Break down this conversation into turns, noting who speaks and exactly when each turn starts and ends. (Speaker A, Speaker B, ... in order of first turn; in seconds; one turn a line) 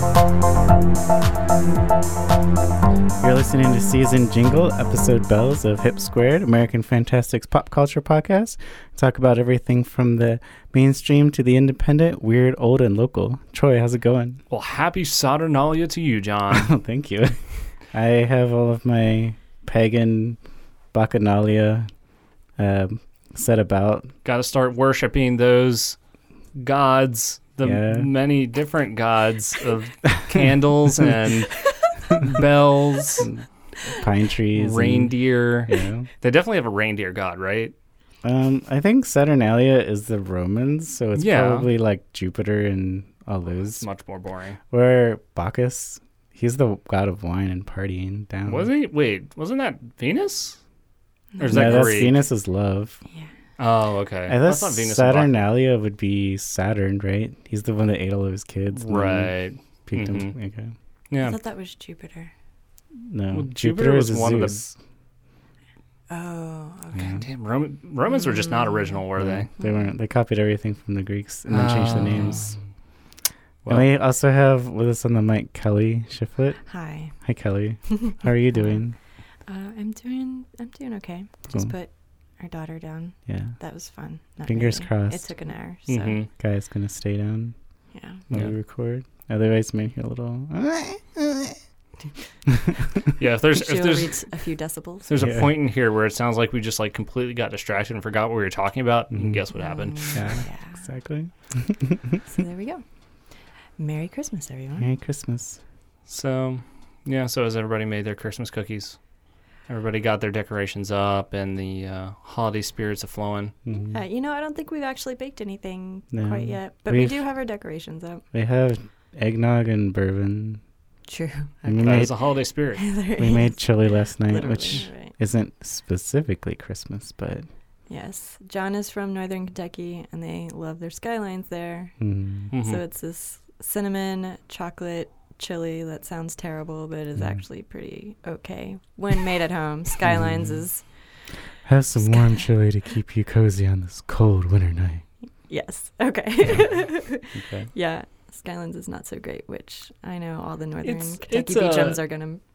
Speaker A: 3.2-14.4
Speaker B: 14.5-16.7
Speaker A: 16.5-17.4
Speaker A: 17.9-20.4
Speaker A: 20.9-21.9
Speaker A: 22.6-24.1
Speaker B: 24.2-26.0
Speaker B: 26.6-33.3
Speaker A: 27.6-28.1
Speaker A: 33.2-36.1
Speaker B: 34.5-37.7
Speaker A: 38.2-43.9
Speaker B: 41.2-41.7
Speaker B: 43.8-44.6
Speaker A: 44.7-48.7
Speaker B: 48.5-50.6
Speaker C: 51.3-51.8
Speaker B: 51.4-52.2
Speaker A: 51.5-53.0
Speaker B: 53.6-55.3
Speaker A: 54.3-59.3
Speaker B: 58.7-60.3
Speaker A: 59.9-60.7
Speaker B: 61.1-61.4
Speaker C: 61.2-62.3
Speaker A: 63.1-64.8
Speaker B: 63.3-64.6
Speaker C: 66.1-67.2
Speaker A: 67.0-67.2
Speaker B: 67.1-69.5
Speaker A: 69.2-72.5
Speaker B: 71.5-72.5
Speaker A: 73.7-76.6
Speaker C: 76.7-77.1
Speaker A: 77.2-79.0
Speaker C: 79.5-86.2
Speaker A: 83.3-83.6
Speaker A: 84.4-85.2
Speaker B: 85.9-86.3
Speaker A: 86.4-87.5
Speaker C: 87.9-88.2
Speaker A: 88.3-91.6
Speaker A: 92.5-92.8
Speaker B: 93.2-94.2
Speaker C: 93.5-95.1
Speaker B: 95.1-100.4
Speaker A: 95.2-95.5
Speaker A: 99.1-99.4
Speaker C: 99.6-100.8
Speaker A: 100.1-102.2
Speaker C: 102.3-102.8
Speaker C: 103.8-104.9
Speaker A: 104.8-105.6
Speaker B: 106.1-109.0
Speaker B: 109.7-113.5
Speaker A: 113.7-114.0
Speaker C: 113.9-118.2
Speaker A: 116.1-117.2
Speaker A: 118.3-120.6
Speaker C: 121.1-122.2
Speaker A: 121.7-122.1
Speaker B: 121.8-122.9
Speaker C: 122.8-125.1
Speaker A: 123.2-127.5
Speaker C: 127.9-131.9
Speaker A: 132.0-132.5
Speaker B: 132.5-132.8
Speaker C: 132.6-140.8
Speaker A: 140.1-140.6
Speaker A: 141.7-145.1
Speaker C: 142.0-142.5
Speaker C: 145.5-152.4
Speaker A: 147.3-147.7
Speaker B: 150.8-152.0